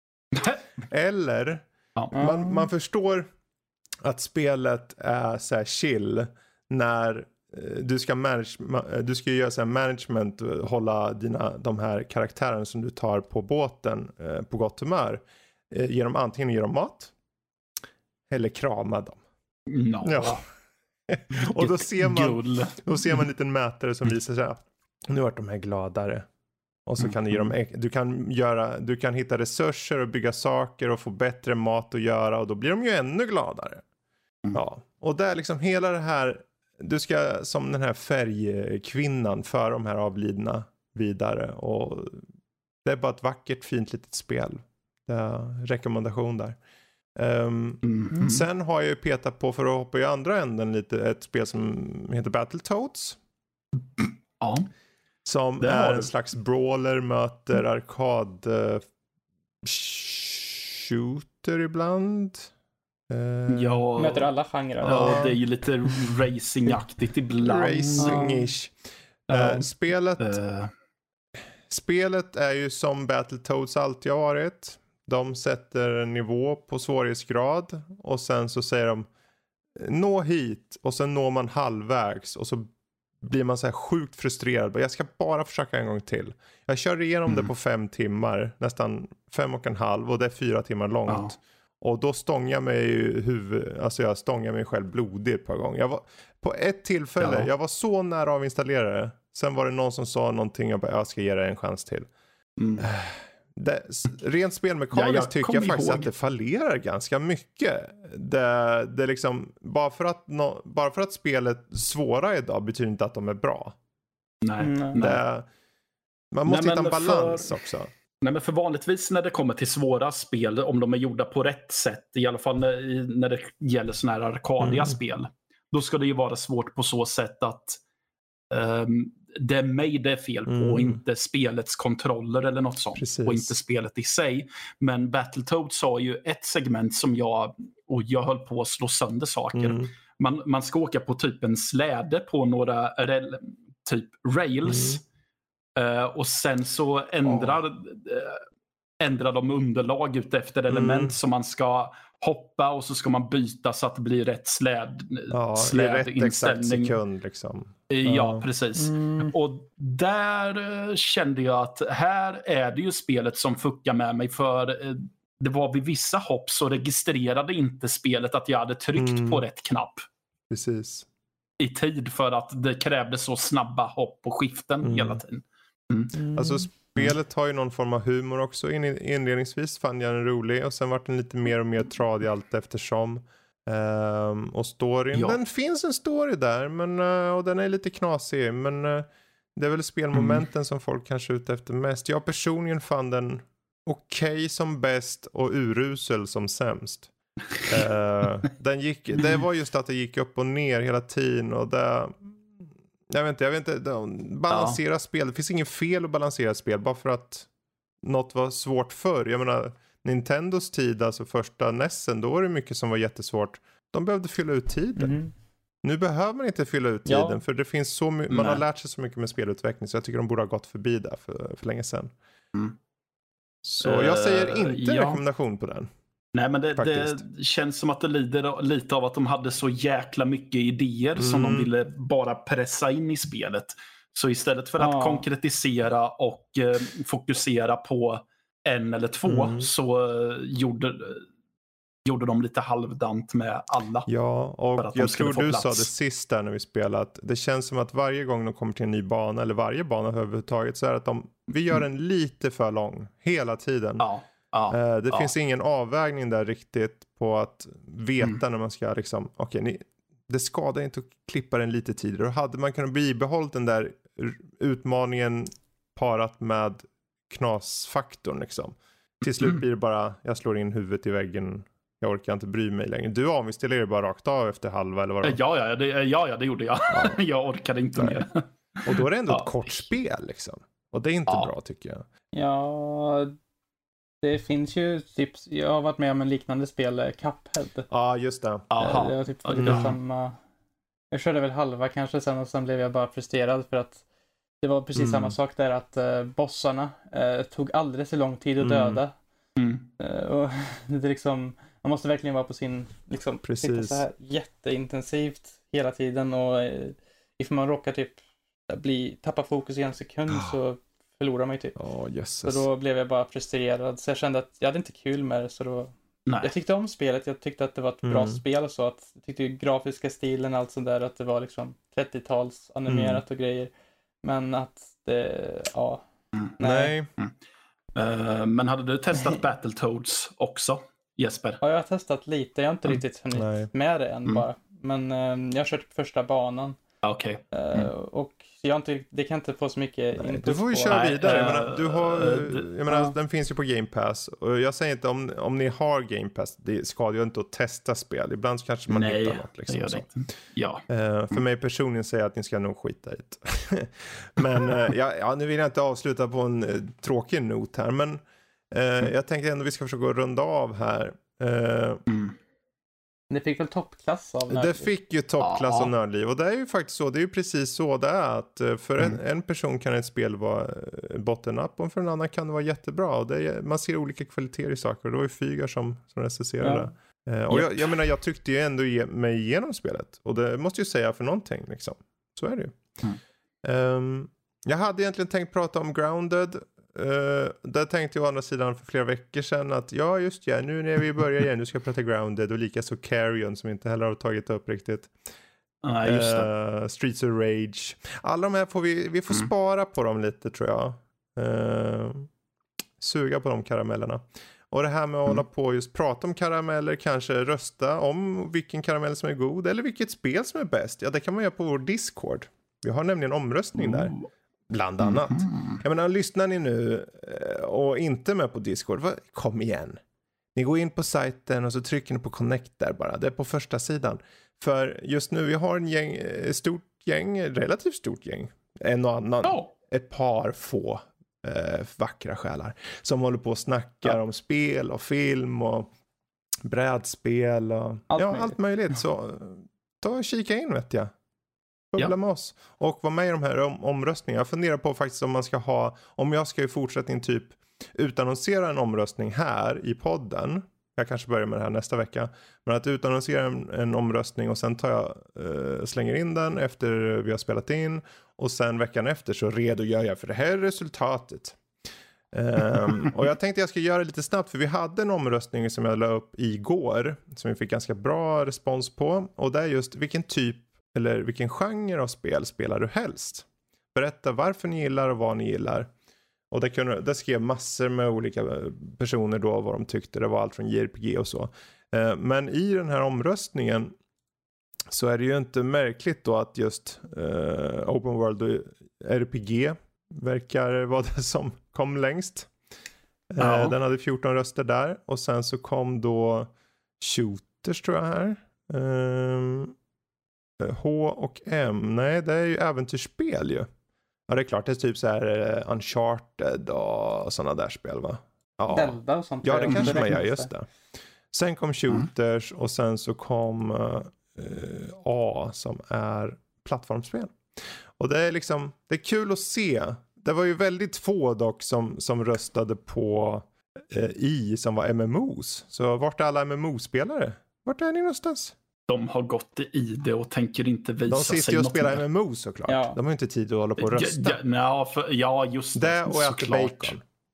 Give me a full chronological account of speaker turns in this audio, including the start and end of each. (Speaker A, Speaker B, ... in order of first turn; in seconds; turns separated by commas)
Speaker A: 0.8-3.3, Speaker B: 2.1-2.7, Speaker A: 4.0-17.1, Speaker A: 18.3-19.2, Speaker C: 19.7-20.4, Speaker A: 20.0-20.4, Speaker A: 21.1-26.2, Speaker C: 21.4-22.9, Speaker A: 26.9-33.8, Speaker C: 27.0-27.4, Speaker A: 34.5-42.2, Speaker A: 42.8-46.6, Speaker A: 47.1-53.2, Speaker C: 47.8-48.4, Speaker C: 54.0-54.7, Speaker A: 55.2-58.8, Speaker C: 55.6-56.1, Speaker A: 59.6-62.5, Speaker A: 63.1-63.9, Speaker C: 63.5-64.3, Speaker B: 64.0-65.3, Speaker A: 64.8-65.4, Speaker C: 64.8-68.2, Speaker A: 67.4-68.7, Speaker B: 68.0-68.5, Speaker A: 69.3-70.4, Speaker C: 69.3-70.7, Speaker A: 71.7-79.1, Speaker A: 79.8-82.7, Speaker A: 83.2-102.1, Speaker C: 91.1-91.3, Speaker C: 97.2-97.5, Speaker C: 102.6-102.9, Speaker A: 102.8-113.8, Speaker C: 104.9-106.1, Speaker C: 114.4-115.2, Speaker B: 114.6-115.1, Speaker A: 115.0-115.5, Speaker A: 116.3-117.9, Speaker C: 116.5-117.6, Speaker C: 118.2-127.8, Speaker A: 124.6-125.0, Speaker C: 128.5-145.0, Speaker A: 130.5-131.0, Speaker A: 133.0-133.6, Speaker A: 139.5-139.9, Speaker A: 144.6-145.0, Speaker C: 145.8-148.4, Speaker A: 147.2-147.6, Speaker C: 149.0-157.0, Speaker A: 150.7-151.1, Speaker A: 155.3-158.4, Speaker C: 157.9-170.1, Speaker B: 158.8-159.3, Speaker A: 168.9-169.4, Speaker A: 170.5-171.1, Speaker C: 171.6-176.2, Speaker A: 174.8-175.2, Speaker B: 176.2-176.6, Speaker A: 176.3-197.1, Speaker C: 185.1-185.4, Speaker C: 190.1-190.4, Speaker A: 197.6-202.4, Speaker A: 203.1-207.5, Speaker C: 204.5-204.8, Speaker A: 208.0-215.2, Speaker B: 214.9-215.3, Speaker A: 215.8-222.1, Speaker B: 217.1-217.4, Speaker C: 218.3-218.6, Speaker A: 223.6-225.9, Speaker C: 223.8-225.2, Speaker C: 226.3-241.2, Speaker A: 226.8-227.2, Speaker A: 231.2-231.7, Speaker B: 234.8-235.3, Speaker A: 239.2-239.7, Speaker C: 242.0-244.1, Speaker A: 244.1-254.1, Speaker C: 244.7-245.9, Speaker C: 254.0-255.3, Speaker A: 254.7-275.4, Speaker C: 275.2-279.7, Speaker A: 276.9-277.2, Speaker A: 277.9-278.2, Speaker A: 278.9-282.0, Speaker C: 281.3-281.5, Speaker B: 282.3-283.3, Speaker B: 284.2-287.9, Speaker A: 287.9-288.6, Speaker C: 288.7-289.9, Speaker B: 288.8-290.4, Speaker A: 289.6-289.9, Speaker B: 291.1-294.0, Speaker B: 294.6-299.1, Speaker A: 294.9-295.3, Speaker A: 298.6-299.0, Speaker C: 299.6-299.9, Speaker B: 300.0-308.2, Speaker A: 303.4-304.0, Speaker B: 308.7-311.8, Speaker A: 310.3-310.5, Speaker A: 311.8-312.6, Speaker B: 312.4-323.7, Speaker A: 318.0-318.4, Speaker A: 322.9-323.2, Speaker B: 324.2-326.0, Speaker B: 326.6-326.9, Speaker A: 326.6-327.1, Speaker C: 327.9-331.6, Speaker B: 331.6-336.8, Speaker A: 333.3-333.7, Speaker C: 337.0-337.9, Speaker B: 337.5-341.6, Speaker A: 340.2-350.1, Speaker C: 340.9-342.7, Speaker B: 342.9-343.1, Speaker C: 348.9-350.8, Speaker A: 350.9-362.0, Speaker C: 362.1-362.4, Speaker B: 363.3-364.9, Speaker A: 364.5-383.0, Speaker C: 365.4-365.9, Speaker B: 376.6-376.9, Speaker A: 383.6-395.1, Speaker C: 395.8-396.5, Speaker A: 396.0-402.3, Speaker A: 403.0-414.1, Speaker C: 413.8-414.3, Speaker A: 414.7-420.0, Speaker C: 415.0-415.8, Speaker A: 420.5-435.9, Speaker C: 429.4-429.7, Speaker A: 436.6-441.1, Speaker B: 438.1-438.6, Speaker A: 441.9-461.6, Speaker A: 462.3-475.9, Speaker A: 476.5-483.9, Speaker A: 484.9-492.5, Speaker A: 493.3-499.7, Speaker C: 493.4-493.8, Speaker A: 500.6-503.7, Speaker A: 504.3-510.7, Speaker B: 508.7-510.5, Speaker A: 511.3-517.4, Speaker A: 518.0-528.5, Speaker C: 528.9-532.0, Speaker A: 531.1-534.4, Speaker B: 532.7-533.0, Speaker C: 533.8-537.0, Speaker A: 535.8-537.0